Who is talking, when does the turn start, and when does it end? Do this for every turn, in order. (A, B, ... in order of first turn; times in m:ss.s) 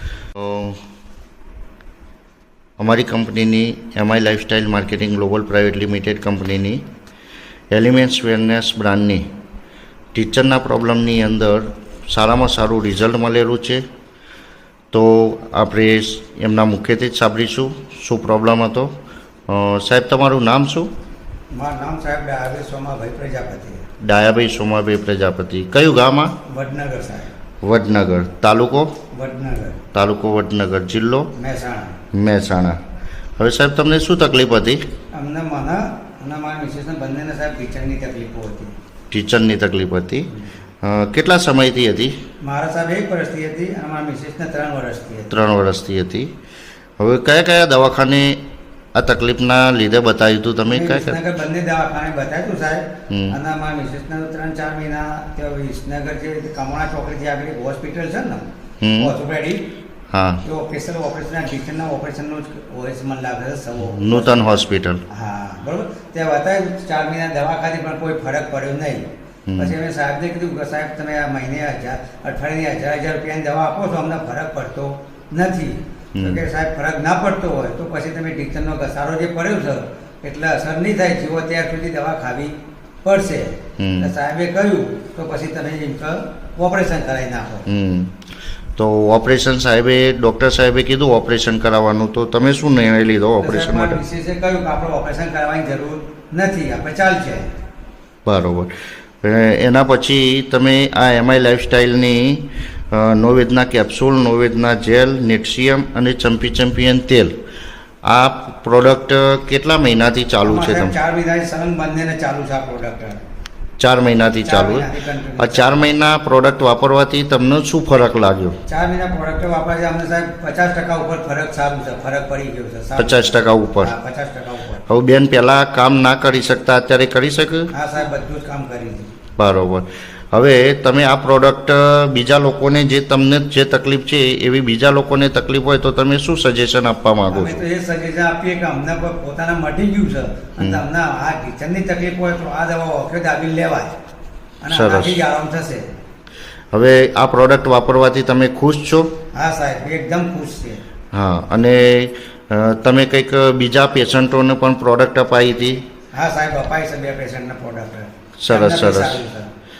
0:00.4-0:00.8 A
0:02.8-0:06.8 A
0:07.7-0:09.3 A
0:10.1-0:13.8 A
0:14.9-0:18.9 A
0:19.5-0:20.9 A
0:21.5-0:23.8 B
0:24.0-0:26.3 A
0:26.5-0:27.3 B
0:27.6-0:28.9 A
0:29.1-0:29.8 B
0:29.9-0:31.3 A
0:31.4-0:32.0 B
0:32.1-0:32.8 A
0:33.4-0:34.8 A
0:35.1-0:38.7 B
0:39.1-0:40.3 A
0:40.8-0:42.2 A
0:42.4-0:45.4 B
0:45.3-0:46.3 A
0:47.0-0:48.4 A
0:49.0-0:51.2 A
0:50.7-0:58.4 B
0:53.1-0:53.3 A
0:58.8-0:59.1 A
0:59.0-0:59.7 B
1:00.1-1:00.4 A
1:00.4-1:27.6 B
1:03.8-1:05.0 A
1:09.5-1:09.7 A
1:16.1-1:16.4 A
1:23.8-1:24.1 A
1:27.7-1:28.2 A
1:28.8-1:34.0 A
1:33.4-1:37.5 B
1:38.2-1:38.7 A
1:39.2-1:47.4 A
1:48.0-1:50.9 A
1:50.4-1:53.2 B
1:53.8-1:54.9 A
1:54.4-1:55.9 B
1:55.4-1:58.6 A
1:58.7-2:04.8 B
2:03.0-2:03.9 A
2:04.9-2:07.7 A
2:07.7-2:09.1 B
2:09.4-2:17.6 A
2:17.3-2:23.9 B
2:24.6-2:25.9 B
2:24.7-2:25.2 A
2:26.7-2:29.1 A
2:29.3-2:30.8 B
2:31.1-2:35.8 A
2:36.1-2:39.5 B
2:38.4-2:39.2 A